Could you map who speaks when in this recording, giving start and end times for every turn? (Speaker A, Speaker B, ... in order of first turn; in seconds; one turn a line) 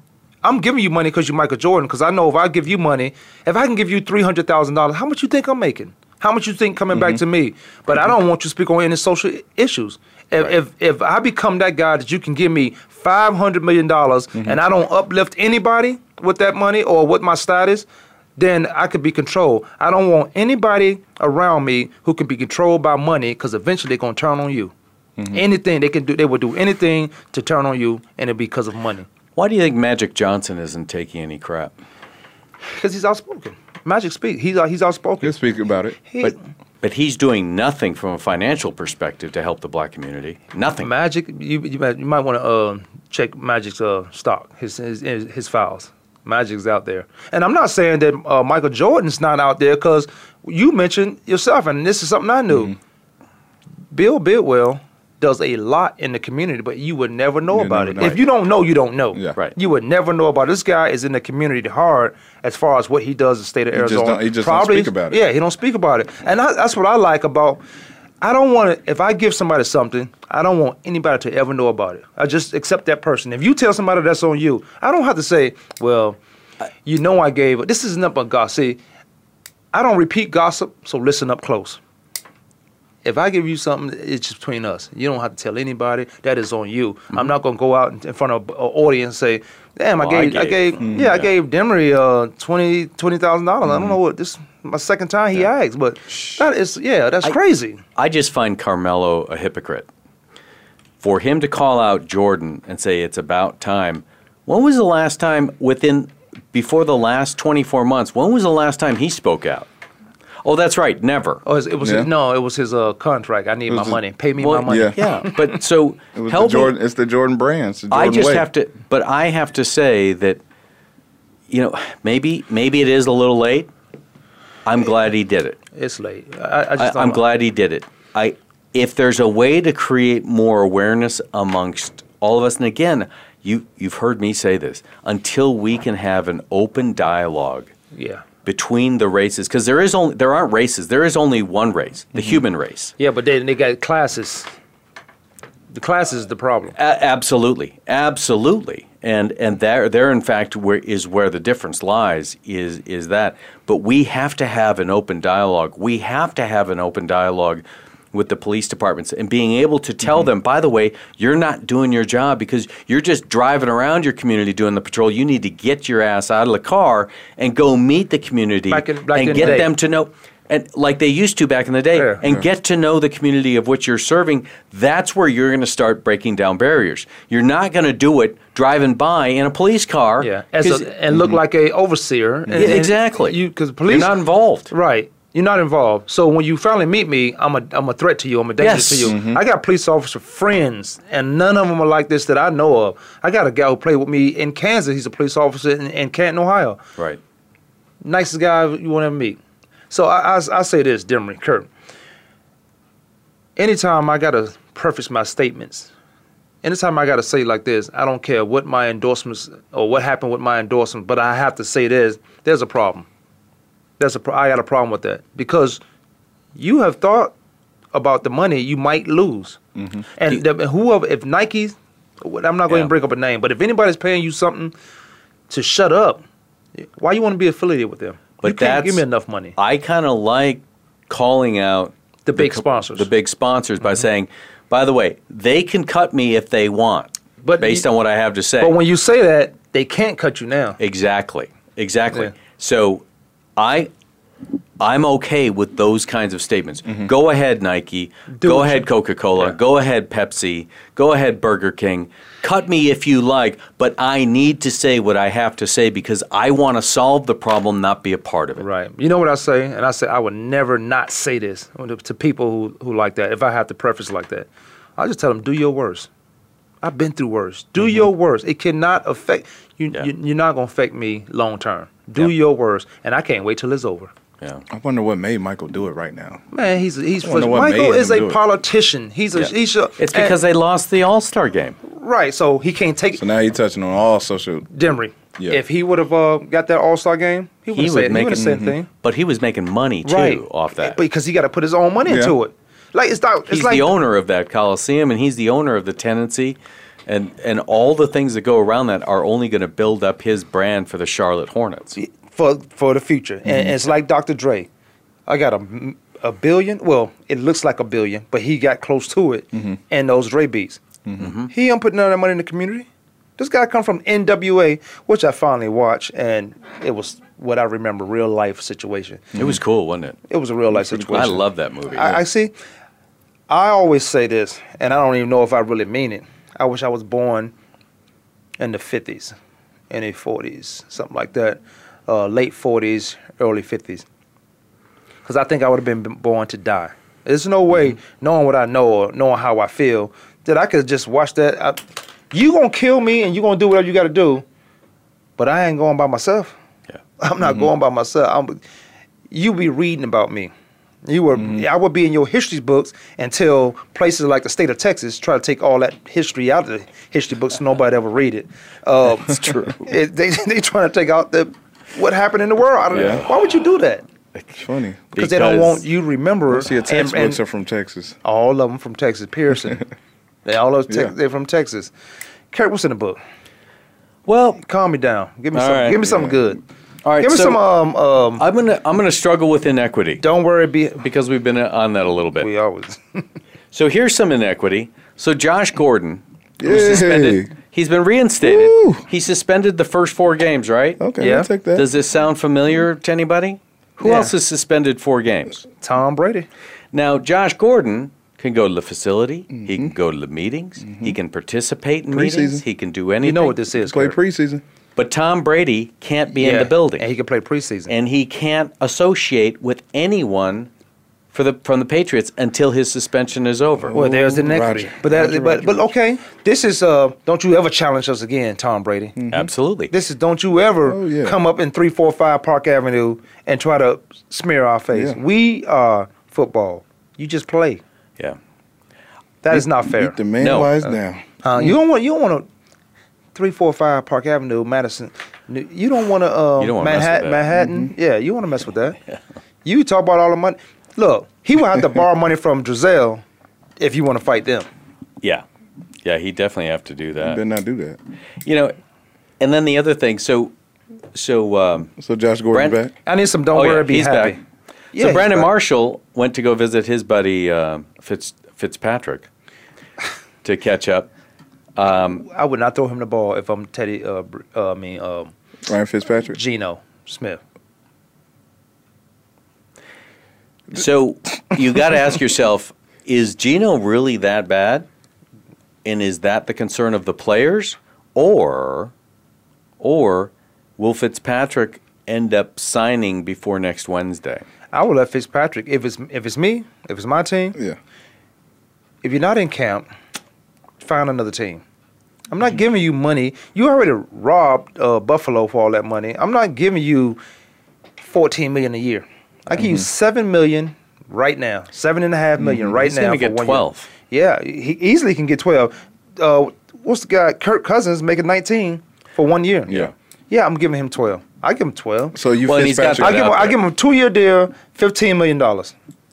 Speaker A: 0.4-24.7
Speaker B: 6.9-7.2
Speaker A: 25.3-29.1
Speaker C: 29.4-31.7
Speaker A: 32.7-35.4
Speaker B: 35.2-36.0
Speaker A: 36.0-36.3
Speaker C: 36.2-40.9
Speaker A: 40.8-52.7
Speaker A: 53.9-67.6
Speaker B: 57.5-58.2
Speaker B: 63.7-65.2
Speaker A: 68.2-76.2
Speaker A: 76.8-78.8
Speaker A: 79.7-81.8
Speaker A: 83.0-97.8
Speaker C: 90.0-91.3
Speaker B: 90.8-91.1
Speaker C: 98.0-99.9
Speaker C: 101.0-109.7
Speaker C: 110.4-111.4
Speaker A: 111.4-115.3
Speaker B: 111.8-112.1
Speaker B: 113.7-114.0
Speaker C: 114.4-116.7
Speaker B: 114.7-115.0
Speaker B: 116.1-118.5
Speaker C: 117.9-120.4
Speaker C: 121.5-123.7
Speaker C: 124.7-125.6
Speaker A: 125.7-127.2
Speaker C: 126.8-137.7
Speaker A: 137.9-138.2
Speaker C: 138.4-142.9
Speaker A: 143.0-144.5
Speaker A: 145.7-146.7
Speaker C: 146.8-180.9
Speaker A: 168.7-169.7
Speaker A: 171.9-172.2
Speaker A: 180.2-184.1
Speaker B: 182.5-182.8
Speaker C: 182.5-184.7
Speaker A: 184.7-196.8
Speaker C: 188.6-189.2
Speaker B: 189.0-189.4
Speaker A: 198.0-199.4
Speaker A: 199.9-201.7
Speaker A: 203.6-205.9
Speaker A: 206.6-213.1
Speaker A: 214.0-215.8
Speaker A: 216.6-217.3
Speaker A: 217.9-219.6
Speaker B: 219.8-220.0
Speaker A: 220.2-224.7
Speaker A: 225.5-226.2
Speaker A: 226.8-229.5
Speaker C: 228.4-229.0
Speaker C: 229.6-238.8
Speaker A: 232.2-233.1
Speaker A: 237.4-237.8
Speaker A: 238.6-240.8
Speaker C: 240.8-243.0
Speaker C: 243.6-243.9
Speaker C: 244.8-258.6
Speaker A: 248.3-248.8
Speaker A: 258.6-266.1
Speaker A: 266.8-274.1
Speaker B: 274.7-276.4
Speaker A: 276.5-280.4
Speaker B: 277.2-278.4
Speaker C: 279.3-281.8
Speaker A: 281.8-283.2
Speaker B: 283.1-284.7
Speaker A: 284.7-288.9
Speaker C: 287.7-291.0
Speaker B: 288.3-288.7
Speaker A: 290.0-293.9
Speaker B: 292.1-292.3
Speaker C: 293.5-301.9
Speaker A: 301.9-304.7
Speaker B: 303.5-303.7
Speaker A: 305.3-310.8
Speaker B: 311.1-311.3
Speaker C: 311.2-311.5
Speaker A: 311.5-319.2
Speaker C: 319.4-320.2
Speaker A: 320.3-322.5
Speaker B: 320.8-321.4
Speaker C: 321.1-322.2
Speaker A: 323.5-327.5
Speaker A: 328.6-329.4
Speaker A: 329.9-334.0
Speaker A: 335.2-344.4
Speaker A: 345.4-346.5
Speaker A: 347.2-348.6
Speaker A: 349.3-350.5
Speaker A: 351.0-364.0
Speaker C: 359.4-359.8
Speaker B: 362.9-363.2
Speaker C: 362.9-363.2
Speaker B: 364.6-365.1
Speaker C: 365.1-365.8
Speaker A: 365.1-367.4
Speaker B: 366.5-368.1
Speaker A: 368.2-369.9
Speaker A: 370.4-371.9
Speaker B: 370.9-371.1
Speaker A: 372.5-373.2
Speaker C: 374.2-374.6
Speaker A: 374.6-376.6
Speaker C: 375.5-376.2
Speaker C: 377.0-377.6
Speaker A: 377.2-378.4
Speaker C: 378.4-380.2
Speaker A: 380.2-381.0
Speaker C: 381.0-382.5
Speaker A: 382.4-383.2
Speaker C: 383.7-391.0
Speaker B: 386.6-387.5
Speaker B: 388.4-389.0
Speaker B: 391.0-391.9
Speaker A: 391.2-391.5
Speaker C: 391.7-395.6
Speaker A: 394.0-394.3
Speaker A: 395.8-396.5
Speaker C: 396.9-403.6
Speaker B: 399.5-399.9
Speaker B: 400.8-401.1
Speaker B: 402.1-402.6
Speaker A: 403.2-404.2
Speaker B: 403.7-404.6
Speaker C: 404.9-407.1
Speaker A: 406.3-407.9
Speaker C: 407.9-410.7
Speaker C: 411.3-414.0
Speaker B: 413.8-415.9
Speaker A: 413.9-419.1
Speaker B: 419.1-419.5
Speaker C: 419.3-419.9
Speaker A: 419.9-427.8
Speaker B: 420.8-421.4
Speaker B: 424.9-425.2
Speaker A: 429.4-430.2
Speaker B: 429.5-431.7
Speaker C: 430.4-430.8
Speaker A: 431.4-432.5
Speaker A: 433.3-439.0
Speaker C: 436.6-437.5
Speaker B: 437.5-437.9
Speaker A: 439.6-443.2
Speaker A: 443.8-444.7
Speaker C: 446.0-447.4
Speaker B: 447.2-448.0
Speaker C: 448.4-448.7
Speaker C: 449.4-450.5
Speaker C: 451.1-451.9
Speaker B: 452.0-452.9
Speaker C: 452.5-452.8
Speaker A: 453.0-454.4
Speaker C: 453.5-454.4
Speaker A: 454.9-455.5
Speaker C: 454.9-459.3
Speaker C: 460.4-461.1
Speaker C: 461.8-462.3
Speaker A: 462.3-465.3
Speaker B: 465.6-466.4
Speaker A: 466.3-467.4
Speaker C: 470.7-474.9
Speaker C: 475.8-478.9
Speaker C: 479.8-484.4
Speaker A: 484.7-487.6
Speaker A: 489.0-489.9
Speaker A: 490.8-491.6
Speaker A: 492.3-497.2
Speaker A: 498.0-512.2
Speaker B: 499.6-499.8
Speaker B: 502.4-502.7
Speaker C: 502.8-503.9
Speaker B: 512.1-513.3
Speaker C: 512.5-513.6
Speaker A: 512.8-515.7